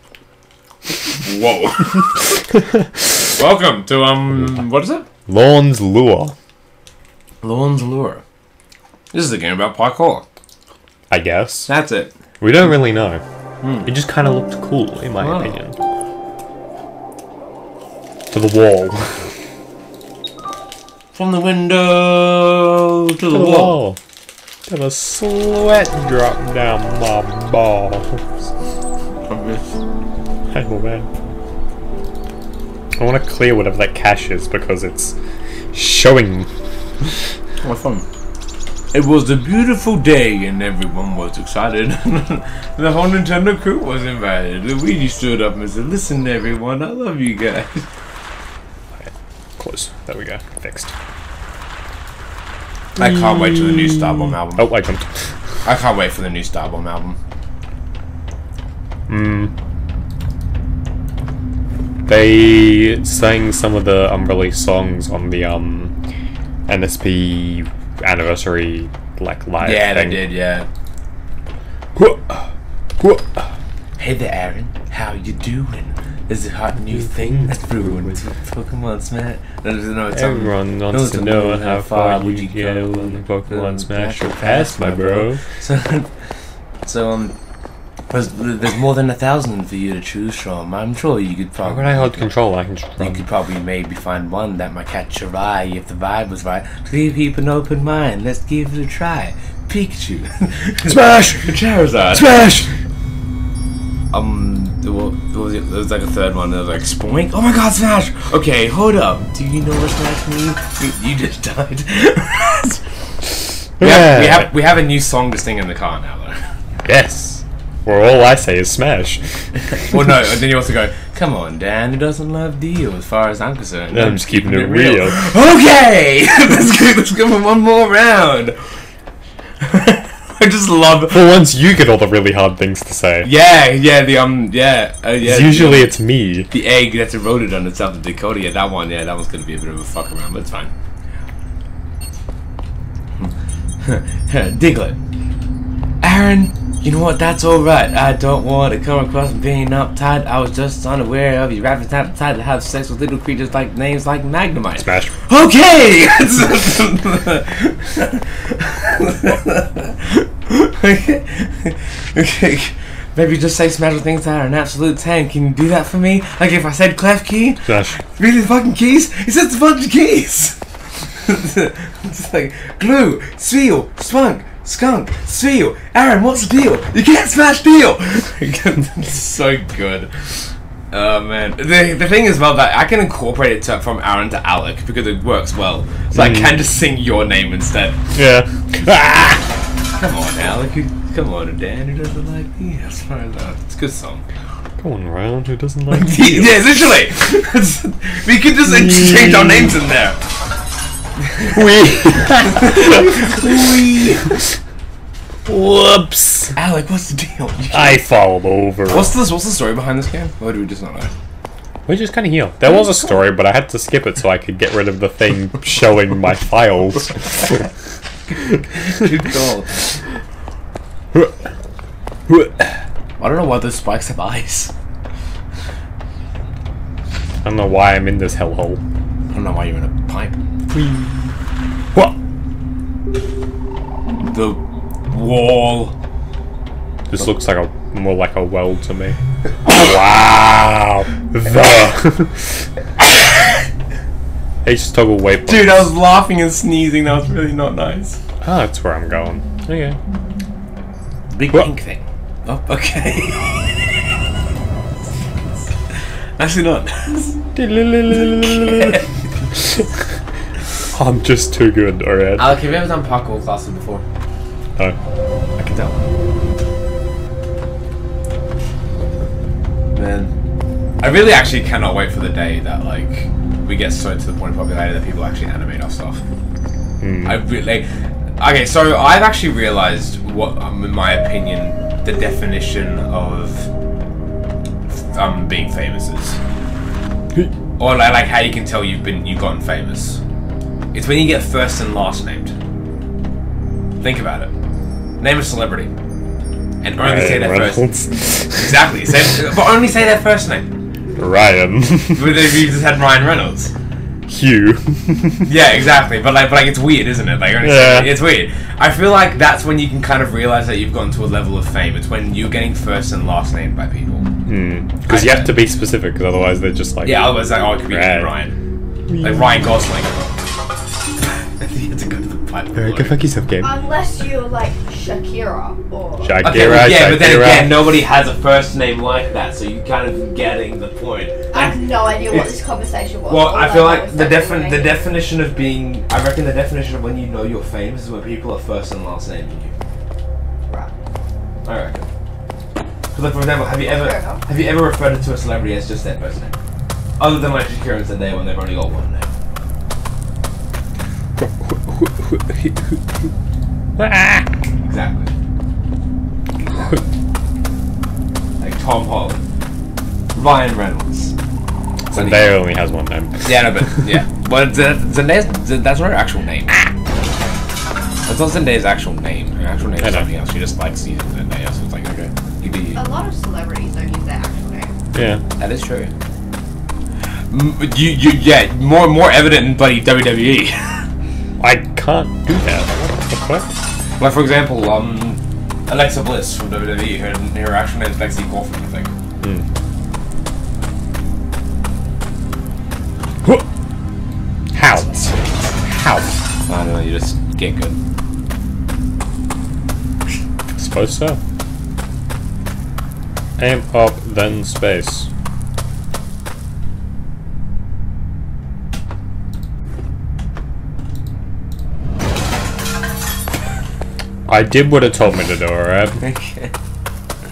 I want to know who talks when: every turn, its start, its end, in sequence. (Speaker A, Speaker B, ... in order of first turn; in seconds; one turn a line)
Speaker A: 1.2-2.3
Speaker A: 3.2-5.0
Speaker B: 5.3-6.3
Speaker A: 7.4-8.2
Speaker A: 9.1-10.2
Speaker B: 11.1-11.7
Speaker A: 11.7-12.1
Speaker B: 12.4-13.2
Speaker A: 13.6-13.9
Speaker B: 13.8-15.8
Speaker A: 15.2-15.6
Speaker B: 18.3-19.3
Speaker A: 21.1-23.8
Speaker B: 23.3-24.0
Speaker B: 24.7-28.2
Speaker A: 29.2-29.7
Speaker B: 30.5-31.1
Speaker B: 33.0-35.1
Speaker B: 35.7-36.5
Speaker A: 37.6-38.0
Speaker A: 38.9-47.9
Speaker B: 48.9-50.9
Speaker A: 53.0-54.7
Speaker B: 53.0-55.3
Speaker A: 55.6-57.2
Speaker B: 59.1-59.5
Speaker B: 62.1-65.9
Speaker B: 66.7-70.2
Speaker A: 69.6-70.7
Speaker B: 72.0-73.5
Speaker A: 74.0-86.1
Speaker B: 80.1-85.4
Speaker A: 86.8-87.3
Speaker A: 88.1-92.3
Speaker B: 91.6-93.2
Speaker A: 93.0-102.6
Speaker B: 100.9-101.5
Speaker B: 102.1-102.7
Speaker A: 104.1-112.8
Speaker B: 113.8-114.5
Speaker A: 113.8-116.5
Speaker B: 116.8-119.2
Speaker A: 119.9-128.8
Speaker B: 123.9-125.2
Speaker A: 129.6-131.4
Speaker B: 131.1-133.3
Speaker A: 133.2-135.9
Speaker B: 135.2-136.5
Speaker A: 136.5-140.7
Speaker A: 143.2-145.0
Speaker A: 146.0-188.0
Speaker B: 154.8-155.1
Speaker B: 167.7-168.0
Speaker B: 186.1-186.6
Speaker B: 188.1-189.4
Speaker A: 189.9-194.2
Speaker B: 194.8-196.7
Speaker A: 195.9-200.2
Speaker B: 198.6-199.8
Speaker A: 201.3-201.6
Speaker B: 201.5-203.3
Speaker A: 202.5-204.4
Speaker B: 205.4-206.6
Speaker A: 206.5-208.0
Speaker B: 207.7-209.1
Speaker A: 208.9-211.1
Speaker B: 211.9-217.6
Speaker A: 218.7-220.0
Speaker B: 222.3-222.5
Speaker A: 223.2-224.7
Speaker B: 227.4-228.8
Speaker A: 229.3-230.5
Speaker B: 230.7-231.3
Speaker A: 234.2-235.9
Speaker B: 237.1-242.5
Speaker B: 244.6-245.9
Speaker A: 245.4-248.2
Speaker B: 248.4-250.0
Speaker A: 251.3-254.0
Speaker A: 255.9-257.4
Speaker B: 257.5-259.0
Speaker A: 258.2-259.0
Speaker B: 260.9-262.5
Speaker A: 262.4-264.0
Speaker A: 265.6-266.0
Speaker A: 269.9-270.3
Speaker A: 271.0-276.2
Speaker B: 277.0-277.4
Speaker A: 277.2-277.9
Speaker A: 278.4-283.7
Speaker A: 284.9-286.4
Speaker A: 287.8-290.2
Speaker A: 290.9-292.5
Speaker A: 294.0-294.5
Speaker A: 295.2-295.9
Speaker A: 296.8-297.8
Speaker B: 297.0-298.9
Speaker A: 298.5-300.7
Speaker B: 301.2-302.3
Speaker A: 302.1-303.7
Speaker B: 304.3-305.5
Speaker A: 305.4-314.3
Speaker B: 307.6-308.1
Speaker B: 314.4-318.3
Speaker A: 315.1-315.6
Speaker A: 317.0-318.5
Speaker B: 319.1-319.5
Speaker A: 319.2-320.4
Speaker A: 321.2-323.2
Speaker B: 322.7-323.8
Speaker C: 323.6-326.5
Speaker B: 326.2-327.9
Speaker A: 326.4-332.6
Speaker C: 331.5-335.0
Speaker A: 333.3-339.7
Speaker A: 341.6-342.1
Speaker A: 343.1-346.6
Speaker C: 343.8-344.4
Speaker A: 347.2-349.3
Speaker B: 351.4-353.3
Speaker B: 354.0-354.5
Speaker A: 354.8-355.3
Speaker A: 358.6-359.4
Speaker A: 360.3-361.3
Speaker B: 362.1-364.0
Speaker A: 362.1-362.6
Speaker A: 363.4-366.8
Speaker A: 368.2-373.1
Speaker B: 370.0-370.3
Speaker C: 372.9-374.9
Speaker B: 375.1-375.4
Speaker A: 375.6-376.1
Speaker A: 377.5-381.1
Speaker B: 381.6-383.7
Speaker A: 384.2-389.1
Speaker B: 394.7-396.3
Speaker A: 394.9-395.8
Speaker A: 396.6-398.0
Speaker B: 400.8-401.4
Speaker B: 403.6-405.3
Speaker B: 414.5-416.2
Speaker A: 416.2-416.7